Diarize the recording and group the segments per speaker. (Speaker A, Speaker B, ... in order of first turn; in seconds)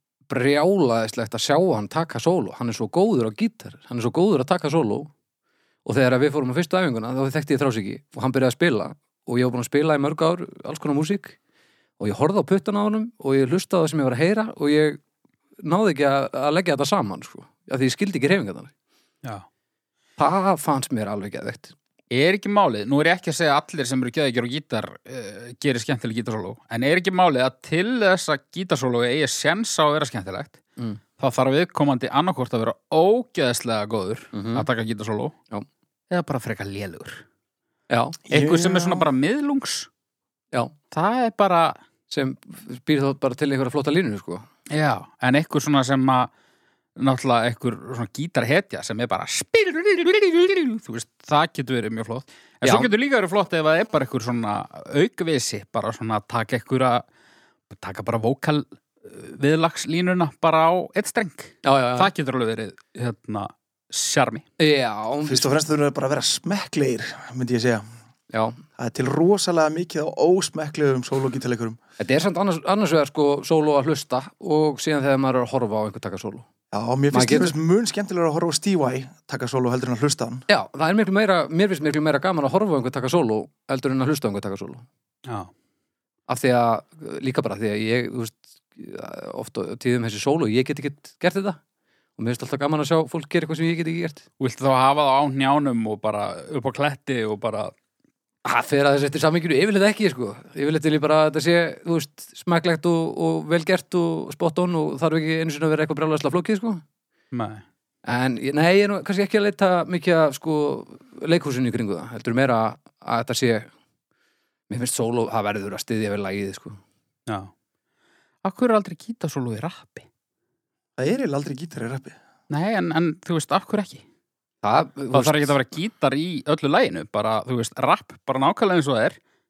Speaker A: 0.3-5.1, 5.8-11.4, 12.0-15.0, 15.6-18.7, 20.2-21.8, 34.3-34.7, 37.9-38.2, 42.1-44.5, 52.6-52.9, 61.6-62.1, 64.6-65.5, 68.3-68.6, 72.0-76.5, 77.1-77.6, 80.5-84.9, 86.3-91.6, 92.2-94.2, 98.5-106.8, 108.0-113.7, 114.7-116.8, 124.6-125.5
Speaker B: 22.1-30.6, 31.2-35.4, 36.1-37.2, 38.3-39.9, 40.9-41.8, 44.7-46.3, 47.0-57.0, 57.7-64.4, 85.3-85.5, 94.4-97.7, 107.3-107.6, 118.4-120.1, 122.5-124.0, 125.1-129.2
Speaker C: 38.3-39.1, 65.2-67.8, 68.8-71.8, 76.7-80.4, 121.0-122.2